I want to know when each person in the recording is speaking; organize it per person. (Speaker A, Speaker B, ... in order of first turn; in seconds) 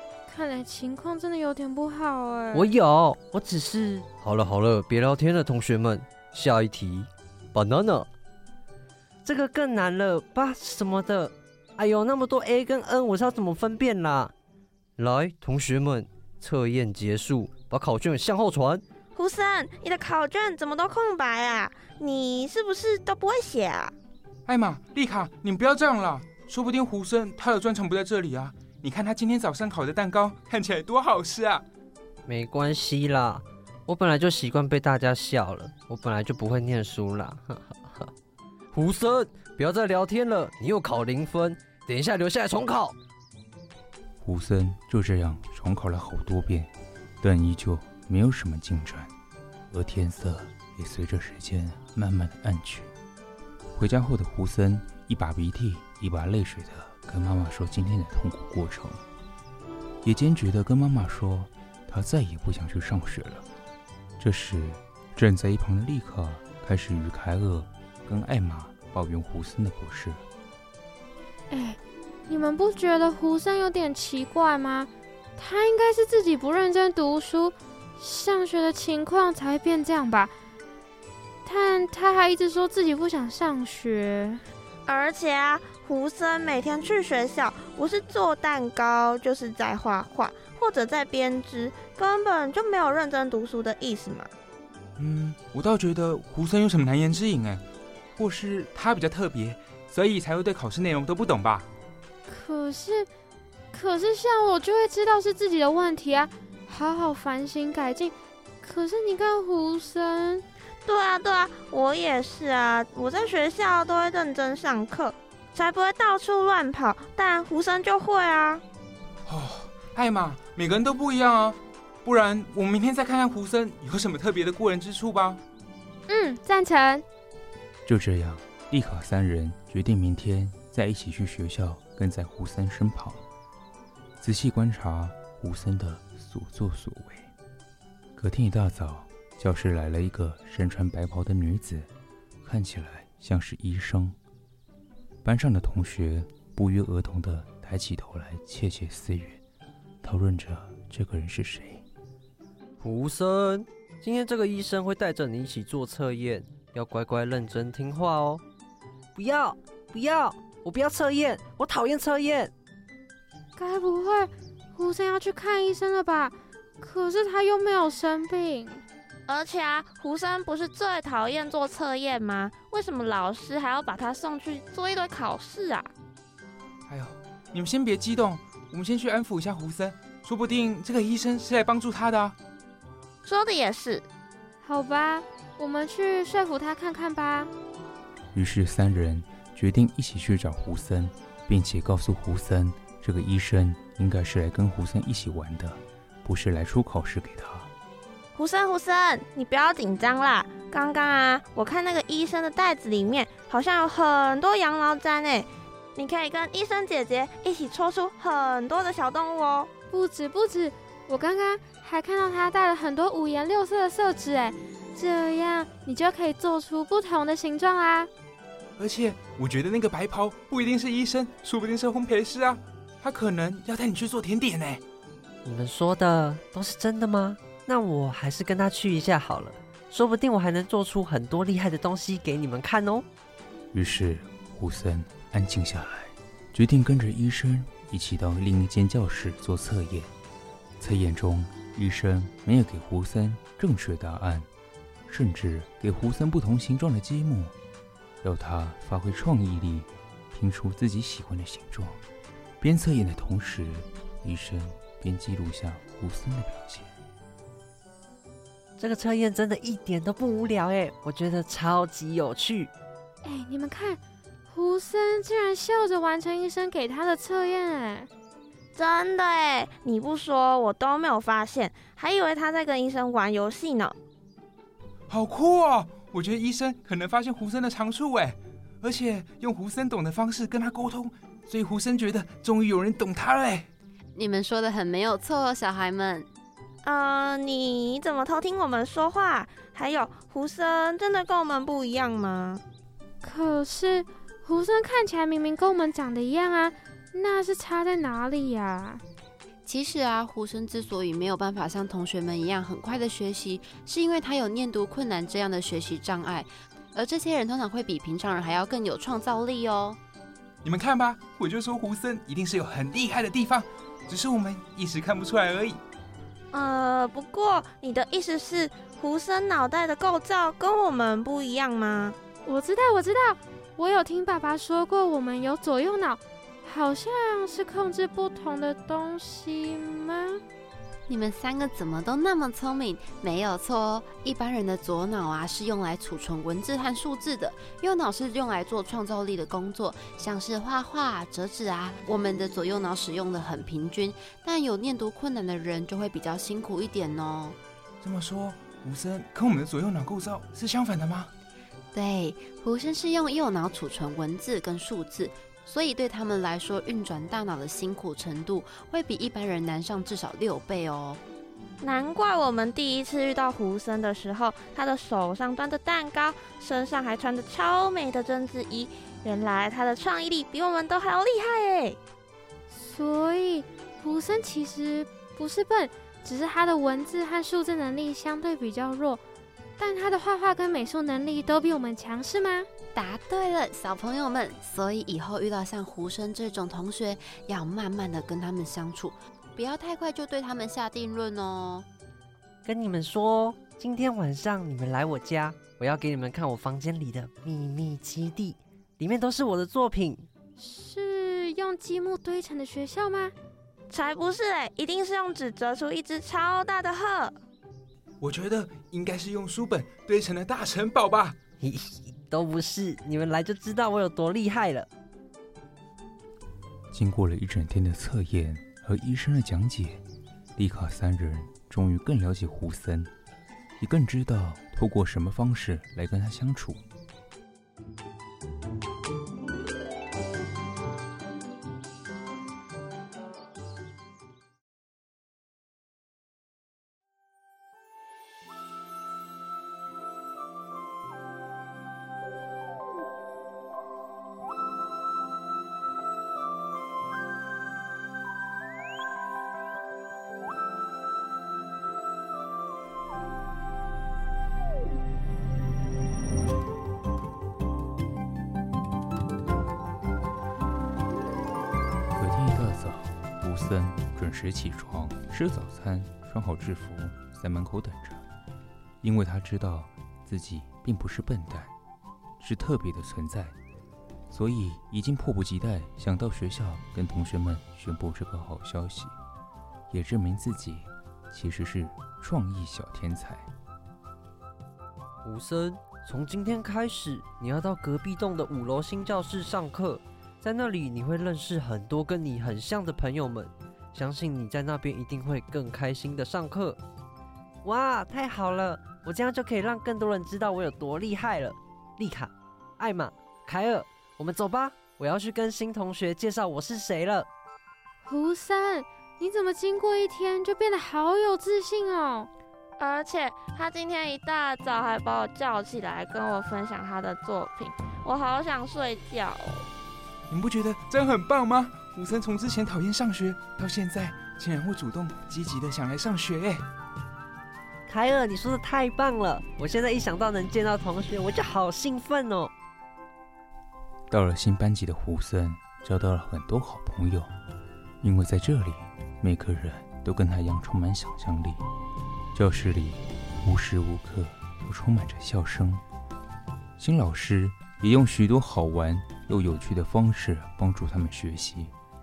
Speaker A: 0.3-2.7, 71.5-80.3, 81.4-84.4, 102.3-103.1, 103.7-110.4, 126.1-127.0, 163.6-168.8, 184.6-187.5, 209.9-218.1, 263.2-268.1, 293.2-299.0, 322.4-330.4, 372.7-379.2, 379.8-382.7, 400.6-403.3, 508.0-512.3
Speaker B: 2.5-8.1, 9.2-14.3, 15.0-18.8, 32.3-38.1, 38.7-43.0, 152.8-158.4, 159.2-162.5, 225.4-233.1, 258.8-262.7, 392.6-400.3, 411.6-414.9, 485.2-496.8, 497.6-507.3, 527.9-532.5
Speaker C: 19.1-23.9, 84.9-94.3, 110.8-118.6, 169.3-175.9, 183.2-184.1, 198.3-209.7, 268.7-273.9, 286.8-292.6, 316.5-322.1, 361.8-372.0, 403.9-407.3, 512.8-519.7
Speaker D: 24.4-31.6, 95.0-97.6, 98.2-101.7, 119.2-125.4, 176.9-182.3, 218.8-224.8, 275.1-283.7, 310.6-315.8, 348.0-351.3, 408.2-411.4, 520.3-526.6
Speaker E: 44.2-49.1, 49.7-52.9, 53.7-59.0, 60.0-63.5, 64.2-70.2, 127.8-133.2, 134.2-137.3, 138.2-141.9, 142.4-144.2, 145.2-149.4, 150.0-151.8, 188.3-197.7, 233.7-240.1, 240.8-244.5, 245.1-247.5, 248.2-252.0, 252.6-256.9, 416.9-420.0, 420.6-423.1, 423.8-426.8, 462.1-468.2, 469.0-471.7, 472.4-473.6, 474.3-479.1, 479.9-483.5, 534.1-537.3, 538.0-541.6, 542.3-545.8, 546.8-551.7
Speaker F: 284.1-286.3, 299.6-310.0, 331.1-347.6, 351.9-361.2, 382.9-391.9